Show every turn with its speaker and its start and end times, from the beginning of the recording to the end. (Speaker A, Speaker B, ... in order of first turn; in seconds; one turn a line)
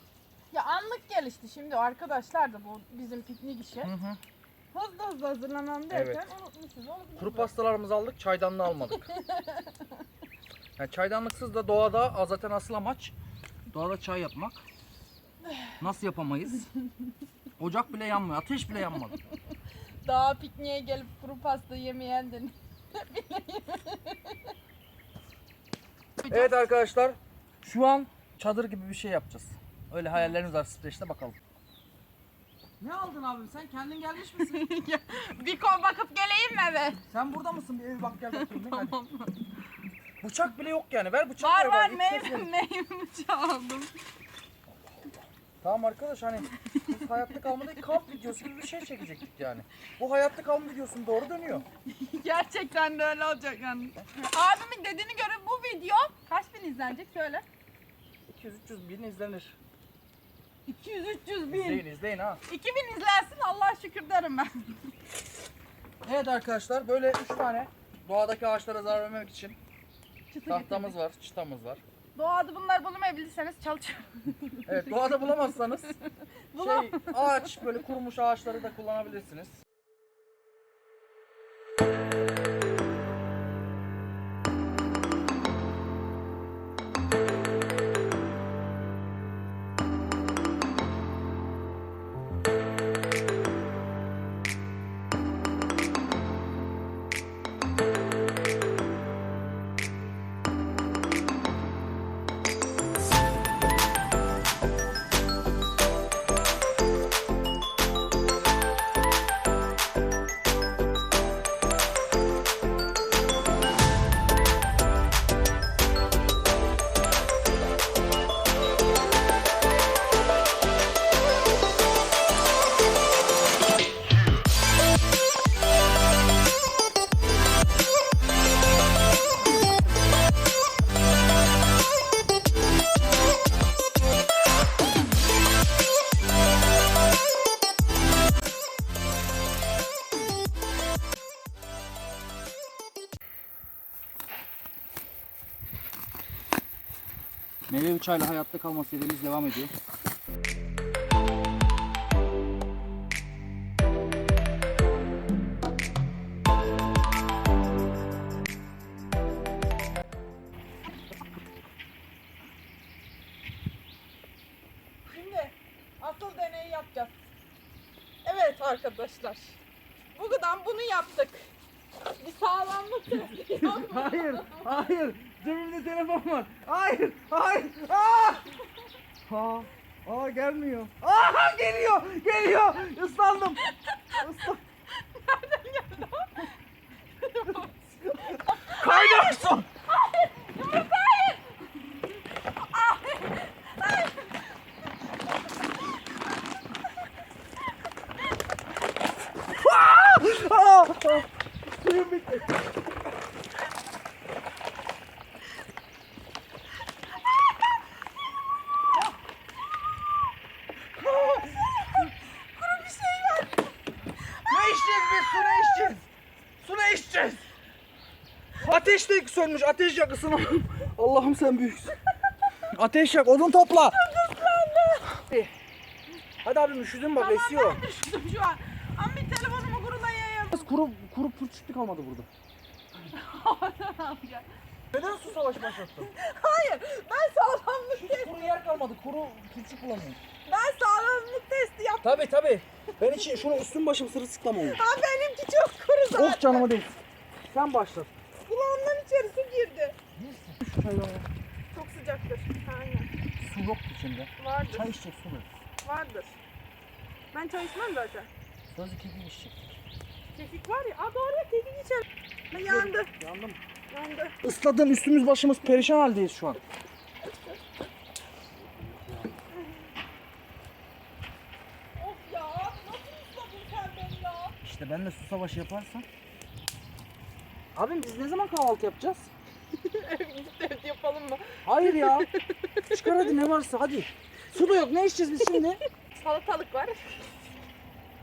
Speaker A: 0.5-3.9
Speaker B: 3.8-4.2
Speaker A: 4.7-7.5
Speaker B: 5.9-6.2
Speaker B: 7.2-9.1
Speaker A: 9.1-10.0
Speaker B: 10.8-13.2
Speaker B: 13.7-14.6
Speaker B: 15.8-16.7
Speaker B: 17.6-19.2
Speaker A: 20.0-24.5
Speaker A: 26.2-26.7
Speaker B: 26.3-31.4
Speaker B: 32.8-34.7
Speaker A: 34.4-37.0
Speaker B: 37.1-39.0
Speaker A: 38.3-39.5
Speaker B: 40.2-42.5
Speaker A: 41.4-43.9
Speaker B: 45.6-51.6
Speaker A: 46.7-46.9
Speaker A: 51.9-57.4
Speaker B: 58.3-59.6
Speaker A: 60.7-61.9
Speaker B: 61.5-62.4
Speaker A: 62.5-64.8
Speaker B: 66.0-69.6
Speaker A: 70.3-71.0
Speaker B: 70.5-71.8
Speaker A: 72.2-74.6
Speaker B: 74.7-75.9
Speaker A: 76.5-77.6
Speaker B: 76.5-79.6
Speaker B: 147.7-149.7
Speaker A: 165.1-167.2
Speaker A: 168.2-169.6
Speaker A: 170.1-171.5
Speaker A: 172.0-174.7
Speaker B: 173.1-178.5
Speaker B: 179.3-184.6
Speaker A: 183.9-184.2
Speaker A: 185.1-186.5
Speaker A: 187.2-194.5
Speaker B: 188.0-189.7
Speaker B: 199.5-201.3
Speaker B: 201.8-202.5
Speaker A: 211.0-213.7
Speaker B: 211.1-211.4
Speaker B: 214.4-216.1
Speaker A: 214.5-215.5
Speaker B: 216.6-217.5
Speaker B: 218.6-222.0
Speaker B: 222.7-224.0
Speaker A: 223.8-225.2
Speaker B: 226.4-227.8
Speaker A: 227.2-230.7
Speaker B: 230.5-232.3
Speaker A: 233.0-234.4
Speaker B: 234.9-236.1
Speaker A: 235.6-238.4
Speaker B: 237.9-240.2
Speaker A: 240.4-242.2
Speaker B: 242.0-244.8
Speaker A: 242.9-243.4
Speaker A: 244.6-246.7
Speaker B: 246.1-246.9
Speaker B: 247.5-248.1
Speaker A: 248.4-249.9
Speaker B: 250.2-251.3
Speaker A: 251.7-253.1
Speaker B: 253.4-255.5
Speaker A: 254.4-254.9
Speaker A: 255.8-256.4
Speaker A: 257.3-258.3
Speaker B: 258.7-259.6
Speaker A: 260.3-263.1
Speaker B: 262.5-263.6
Speaker A: 263.9-264.4
Speaker B: 264.4-266.6
Speaker A: 267.2-267.6
Speaker B: 268.8-269.3
Speaker A: 271.9-274.6
Speaker B: 274.6-276.1
Speaker B: 277.8-279.3
Speaker A: 279.8-283.3
Speaker B: 281.6-282.3
Speaker B: 282.9-285.8
Speaker A: 285.4-287.4